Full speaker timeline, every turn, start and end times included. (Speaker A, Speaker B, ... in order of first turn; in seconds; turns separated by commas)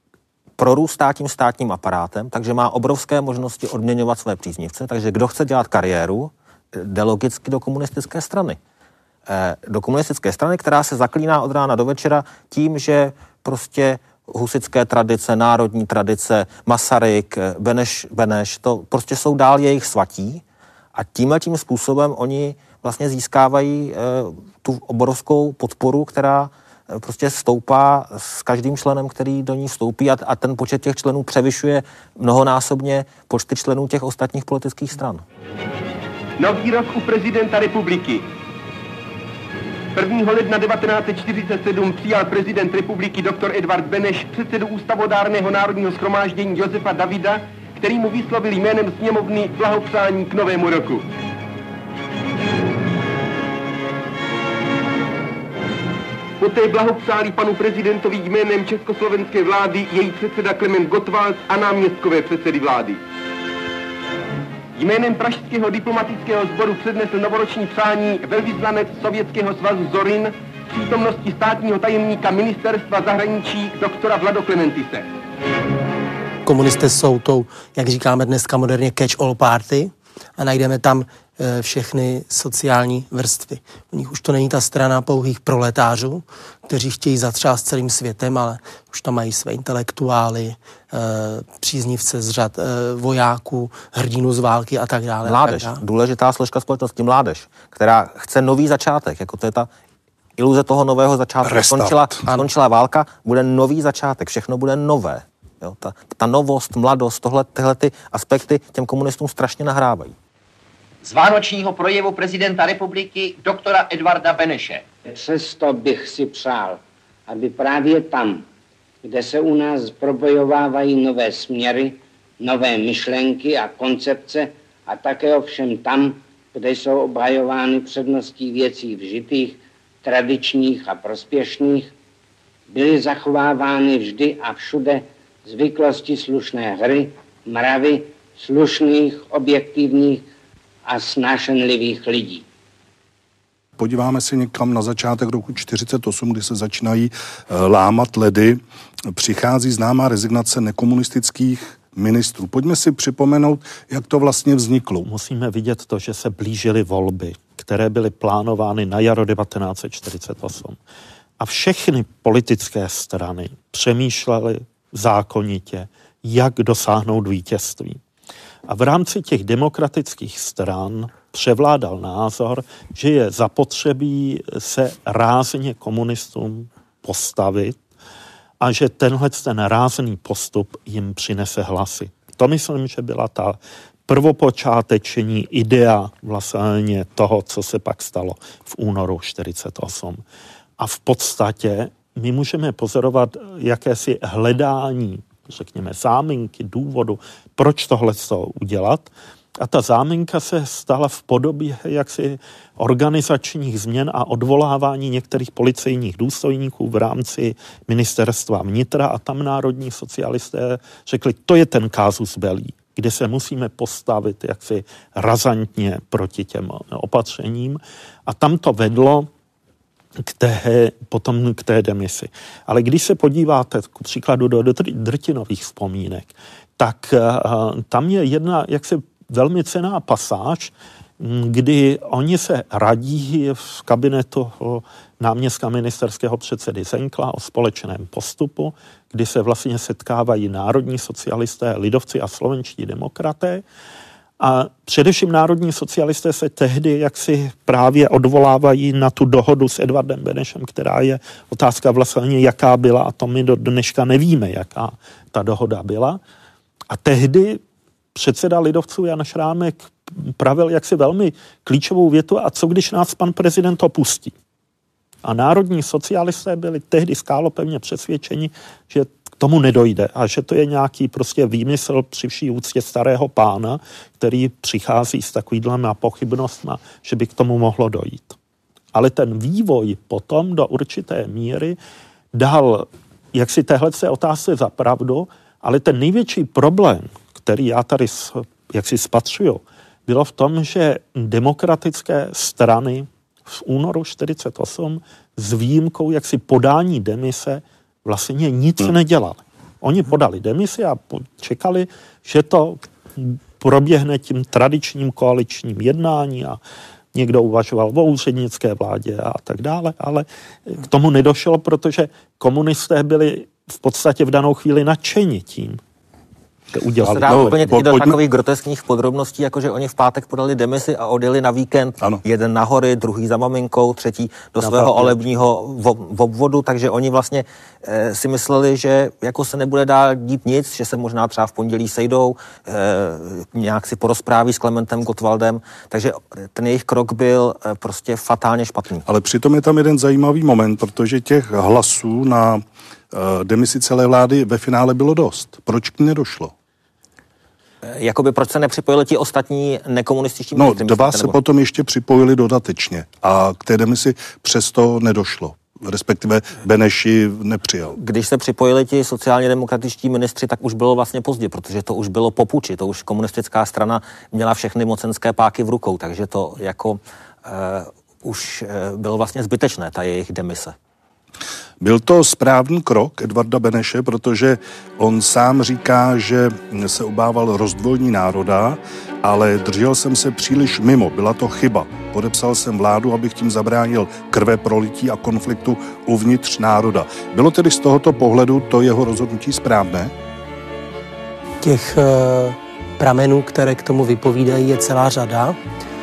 Speaker A: 0.6-8.6, Speaker A: 9.3-20.4, Speaker A: 20.9-35.2, Speaker B: 36.4-38.2, Speaker B: 39.9-51.0, Speaker B: 56.4-63.0, Speaker B: 64.7-75.1, Speaker C: 76.4-95.8, Speaker A: 95.2-99.7, Speaker A: 100.4-110.1, Speaker D: 101.4-102.2, Speaker E: 111.0-114.8, Speaker F: 115.0-118.4, Speaker F: 119.0-131.9, Speaker F: 132.7-140.3, Speaker F: 140.8-142.4, Speaker D: 143.8-148.6, Speaker D: 149.1-155.1, Speaker G: 155.0-160.8, Speaker G: 161.4-168.0, Speaker G: 168.7-177.8, Speaker G: 178.6-183.6, Speaker G: 184.1-190.2, Speaker G: 190.8-219.3, Speaker G: 220.3-243.6, Speaker G: 244.4-256.2, Speaker G: 256.9-257.6, Speaker G: 258.1-264.3, Speaker G: 265.2-278.3, Speaker G: 278.9-281.8, Speaker G: 282.3-306.6, Speaker G: 307.1-315.8, Speaker G: 316.7-317.6, Speaker A: 317.0-339.0, Speaker D: 317.3-318.1, Speaker G: 324.6-325.2, Speaker D: 339.1-346.5, Speaker A: 347.8-351.4, Speaker D: 350.6-358.0, Speaker A: 357.9-370.7, Speaker D: 371.8-390.1, Speaker C: 391.6-395.6